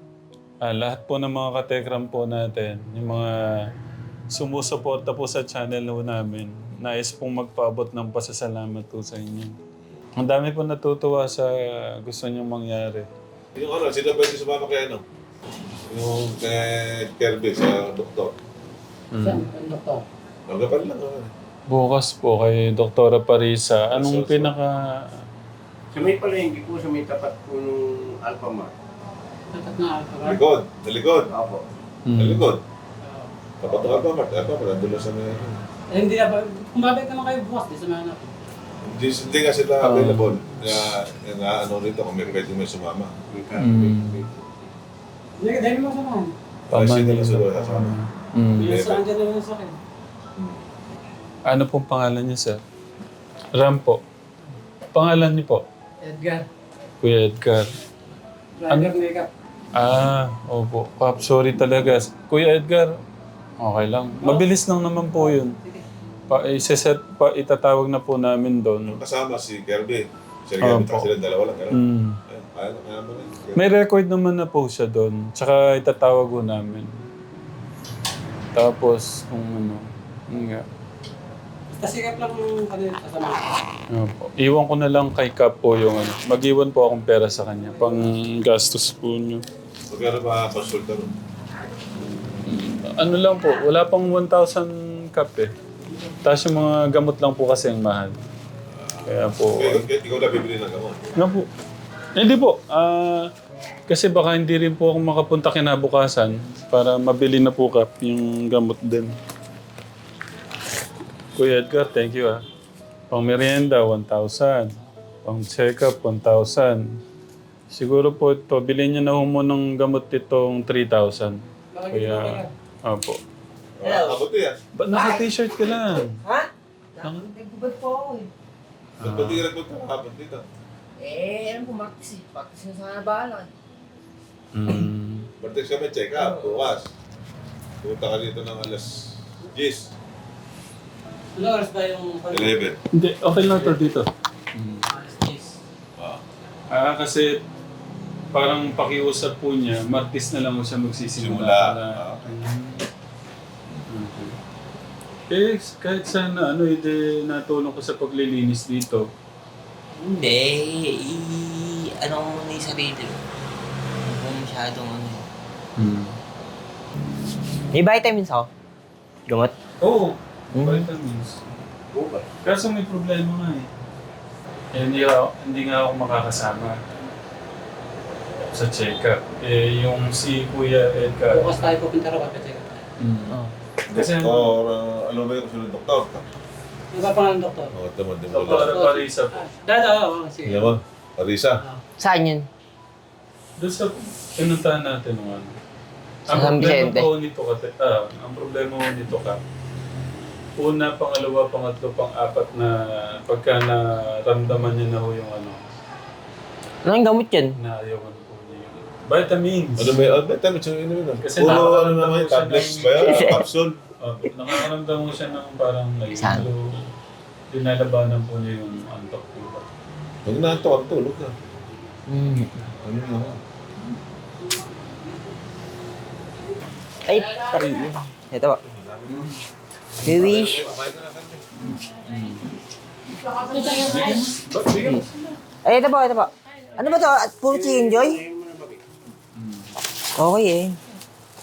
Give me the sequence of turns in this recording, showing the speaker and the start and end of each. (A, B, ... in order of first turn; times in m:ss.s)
0:00.6-0:03.7 A
0:04.3-0:09.6 A
0:10.2-0:13.1 A
0:13.5-0:15.0 B
0:15.9-0:18.4 B
0:19.1-0:19.5 A
0:19.2-0:20.0 C
0:20.5-0:21.3 B
0:21.7-0:25.1 A
0:23.9-0:24.5 B
0:25.9-0:28.7 D
0:29.5-0:30.4 C
0:30.2-0:31.3 B
0:31.3-0:31.6 D
0:32.0-0:32.5 A
0:32.2-0:32.6 B
0:33.0-0:33.3 C
0:33.6-0:35.6 B
0:33.7-0:33.9 D
0:35.9-0:38.3 C
0:38.8-0:43.1 B
0:39.8-0:40.9 A
0:43.3-0:44.7 D
0:43.6-0:44.2 A
0:45.4-0:46.3 C
0:46.7-0:48.7 A
0:46.7-0:48.0 B
0:48.6-0:49.0 B
0:48.6-0:49.8 C
0:50.4-0:50.6 B
0:51.5-0:52.6 A
0:53.5-0:54.0 A
0:54.9-0:55.6 A
0:56.0-0:56.5 C
0:57.0-0:57.7 A
0:58.6-0:59.3 C
0:59.7-1:02.9 A
1:03.6-1:05.6 A
1:04.2-1:04.5 C
1:05.2-1:05.8 C
1:06.3-1:09.0 A
1:08.9-1:13.7 B
1:10.6-1:11.1 A
1:11.7-1:12.2 A
1:13.5-1:16.9 A
1:18.5-1:20.6 A
1:21.7-1:23.4 C
1:23.9-1:29.4 A
1:29.9-1:31.1 B
1:32.4-1:35.5 A
1:36.2-1:38.2 A
1:38.7-1:41.0 B
1:39.1-1:39.8 A
1:41.2-1:41.5 A
1:42.2-1:43.3 A
1:43.9-1:49.1 A
1:51.4-1:52.4 A
1:53.1-1:54.7 A
1:55.2-1:57.0 A
1:57.7-2:03.2 A
2:01.7-2:02.5 C
2:03.8-2:04.6 B
2:03.8-2:04.2 E
2:04.7-2:06.1 A
2:04.9-2:05.3 E
2:06.2-2:08.3 E
2:09.0-2:10.4 B
2:09.0-2:09.4 A
2:11.0-2:13.5 E
2:14.5-2:15.3 A
2:15.4-2:16.9 B
2:16.2-2:16.4 E
2:17.8-2:19.9 B
2:21.4-2:22.5 C
2:22.3-2:22.8 B
2:22.9-2:24.8 A
2:24.9-2:25.5 C
2:26.0-2:26.2 B
2:26.7-2:27.4 A
2:28.3-2:32.9 A
2:31.2-2:32.4 B
2:33.9-2:34.3 A
2:35.3-2:39.0 A
2:40.0-2:43.2 E
2:44.0-2:45.2 E
2:45.8-2:46.2 A
2:47.7-2:48.5 E
2:49.3-2:49.5 E
2:49.8-2:51.4 A
2:50.5-2:50.9 E
2:51.9-2:52.3 D
2:52.4-2:53.7 A
2:54.7-2:56.8 A
2:58.5-3:01.5 A
3:01.3-3:02.8 C
3:03.0-3:03.3 A
3:03.9-3:06.2 B
3:03.9-3:04.5 A
3:06.9-3:07.7 C
3:07.7-3:08.8 B
3:08.3-3:09.4 A
3:08.4-3:10.7 C
3:10.4-3:11.6 B
3:12.0-3:12.4 E
3:13.6-3:15.5 A
3:16.3-3:19.4 A
3:16.3-3:17.1 E
3:20.6-3:25.7 A
3:26.8-3:27.5 E
3:27.6-3:30.1 A
3:29.8-3:33.8 B
3:31.2-3:33.3 A
3:33.0-3:33.4 E
3:34.0-3:36.9 A
3:36.1-3:36.5 E
3:37.5-3:39.6 A
3:40.2-3:41.3 B
3:42.1-3:42.5 E
3:42.8-3:43.4 B
3:47.0-3:48.6 E
3:48.6-3:49.3 B
3:50.0-3:51.4 B
3:50.0-3:50.6 E
3:51.6-3:52.5 A
3:53.2-3:55.4 C
3:54.0-3:55.0 A
3:55.6-3:58.2 E
3:57.4-3:58.8 D
3:59.3-3:59.8 A
4:00.2-4:00.8 E